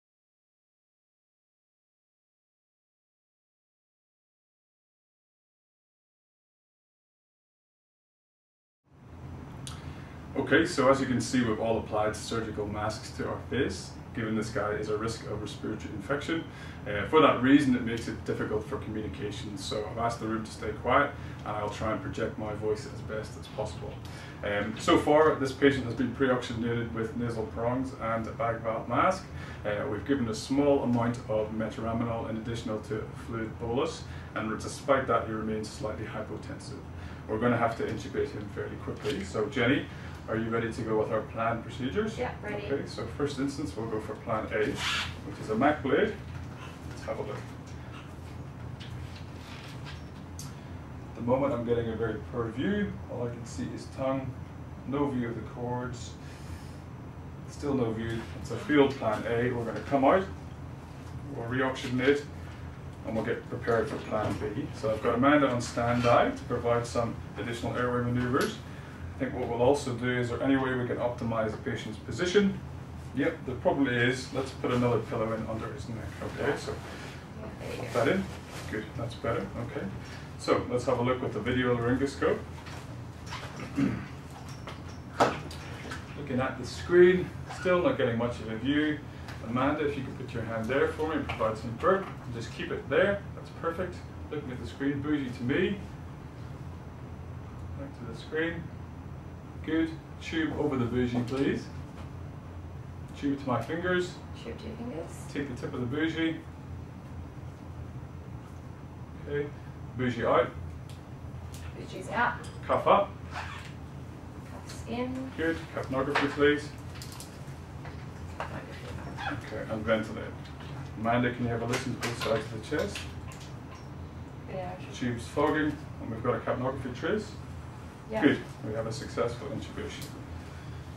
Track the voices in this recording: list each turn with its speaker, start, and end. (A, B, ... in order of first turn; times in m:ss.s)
0:10.3-0:46.2 A
0:42.1-0:42.8 B
0:46.8-0:47.5 A
0:51.1-0:56.6 A
0:57.4-1:00.3 A
1:01.2-1:22.8 A
1:16.3-1:16.6 B
1:17.3-1:18.1 B
1:26.1-1:35.9 A
1:37.7-1:41.7 A
1:43.1-1:44.2 A
1:44.3-1:45.3 B
1:45.3-1:46.4 A
1:49.1-1:50.5 A
1:51.7-1:52.4 B
1:52.6-1:53.2 A
1:54.4-1:55.4 B
1:55.3-1:56.7 A
1:58.4-1:59.2 B
1:59.3-2:00.4 A
2:00.9-2:03.1 A
2:04.4-2:05.0 B
2:04.9-2:10.5 A
2:08.1-2:08.3 B